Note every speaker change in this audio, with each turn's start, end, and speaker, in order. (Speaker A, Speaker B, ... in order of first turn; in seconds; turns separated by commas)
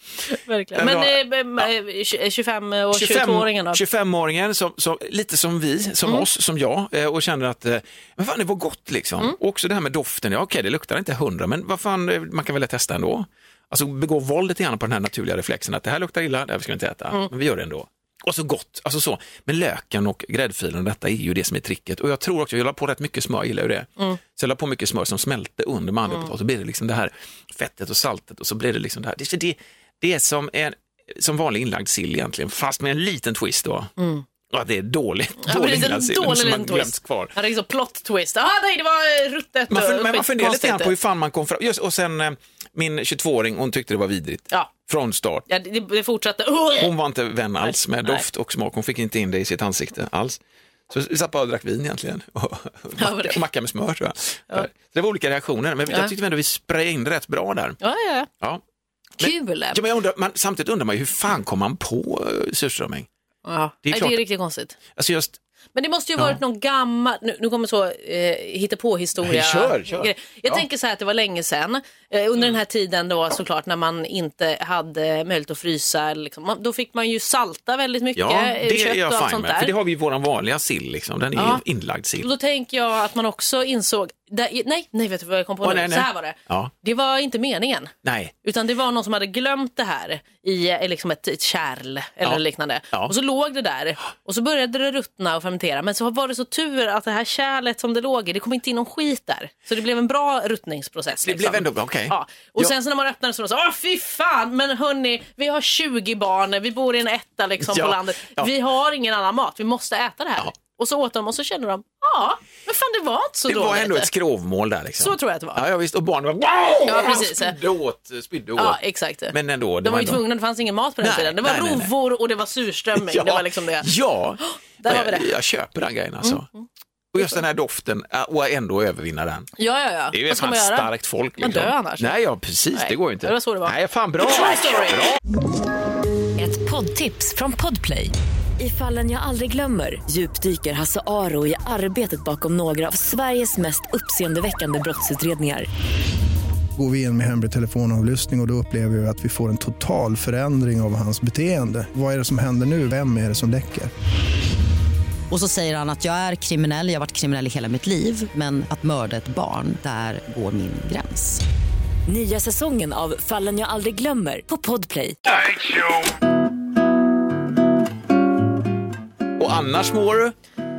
Speaker A: 0.3-3.8, Speaker B: 0.8-1.7, Speaker B: 2.9-33.9, Speaker A: 34.0-34.2, Speaker B: 34.5-37.3, Speaker A: 35.4-40.9, Speaker B: 39.7-45.5, Speaker A: 45.5-46.9, Speaker B: 46.8-57.8, Speaker A: 47.6-48.2, Speaker A: 53.0-53.4, Speaker A: 57.8-58.3, Speaker A: 59.2-59.8, Speaker B: 59.2-63.1, Speaker A: 63.5-64.8, Speaker B: 63.9-64.2, Speaker B: 65.0-65.4, Speaker A: 65.8-79.7, Speaker B: 69.2-70.6, Speaker B: 78.2-82.3, Speaker A: 81.3-81.6, Speaker A: 82.2-87.9, Speaker B: 85.6-86.7, Speaker B: 88.0-88.3, Speaker A: 88.4-114.1, Speaker B: 101.2-102.7, Speaker B: 107.6-108.5, Speaker B: 113.5-118.8, Speaker A: 115.0-115.6, Speaker A: 116.8-117.6, Speaker A: 118.6-125.3, Speaker B: 119.3-120.2, Speaker B: 121.0-121.9, Speaker B: 123.0-126.5, Speaker A: 126.2-126.6, Speaker B: 127.1-129.5, Speaker A: 129.6-132.2, Speaker B: 130.1-135.2, Speaker A: 132.7-135.1, Speaker C: 136.4-145.7, Speaker D: 142.5-143.5, Speaker E: 146.8-153.9, Speaker D: 155.3-161.4, Speaker C: 162.1-165.2, Speaker D: 162.3-163.2, Speaker B: 165.3-166.1, Speaker B: 169.4-170.3